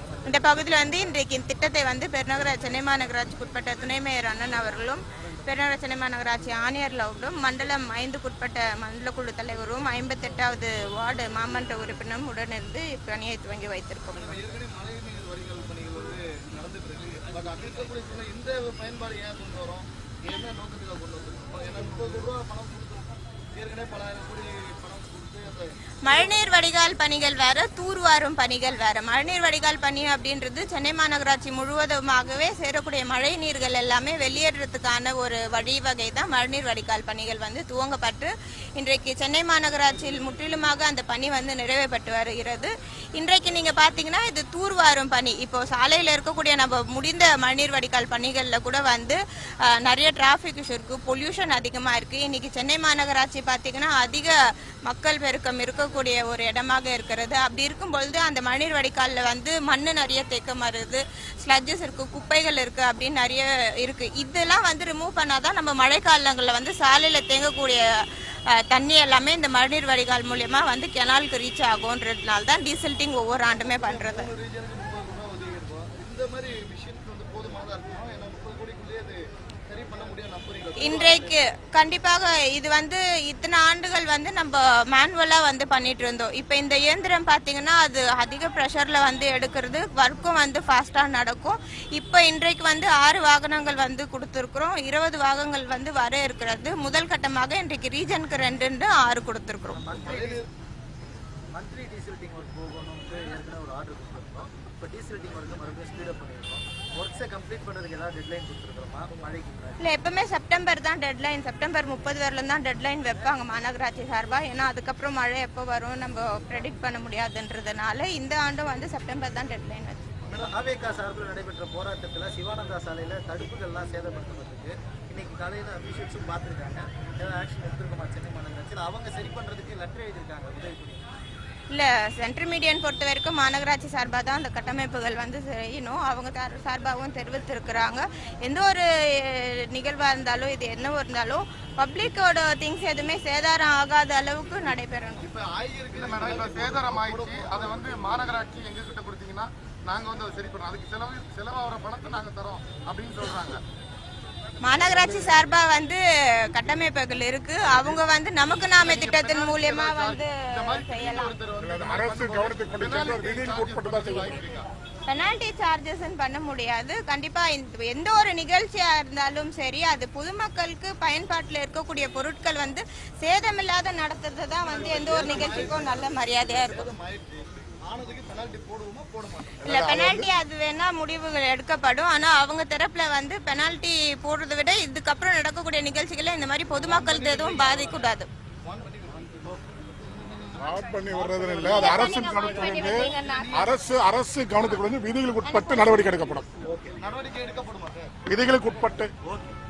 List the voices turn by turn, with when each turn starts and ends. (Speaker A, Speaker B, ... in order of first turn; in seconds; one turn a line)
Speaker A: 0.2-14.4
Speaker B: 14.1-26.3
Speaker A: 26.0-49.2
Speaker A: 49.7-54.3
Speaker A: 54.9-67.8
Speaker A: 68.6-74.3
Speaker B: 73.7-81.4
Speaker A: 80.8-99.8
Speaker C: 99.8-100.4
Speaker D: 100.1-100.4
Speaker C: 101.5-109.8
Speaker A: 109.8-120.1
Speaker C: 120.3-131.1
Speaker A: 131.7-145.2
Speaker B: 145.2-147.8
Speaker D: 145.9-153.6
Speaker A: 154.6-161.3
Speaker D: 157.7-158.0
Speaker D: 158.6-164.7
Speaker E: 161.6-164.4
Speaker A: 165.1-176.9
Speaker B: 174.7-179.5
Speaker E: 179.6-180.3
Speaker A: 179.6-188.3
Speaker B: 186.8-188.1
Speaker B: 188.6-189.4
Speaker E: 190.6-196.5
Speaker A: 191.6-193.7
Speaker B: 192.4-193.7
Speaker A: 195.4-196.2
Speaker C: 196.6-196.9
Speaker B: 197.0-198.1
Speaker E: 198.2-199.1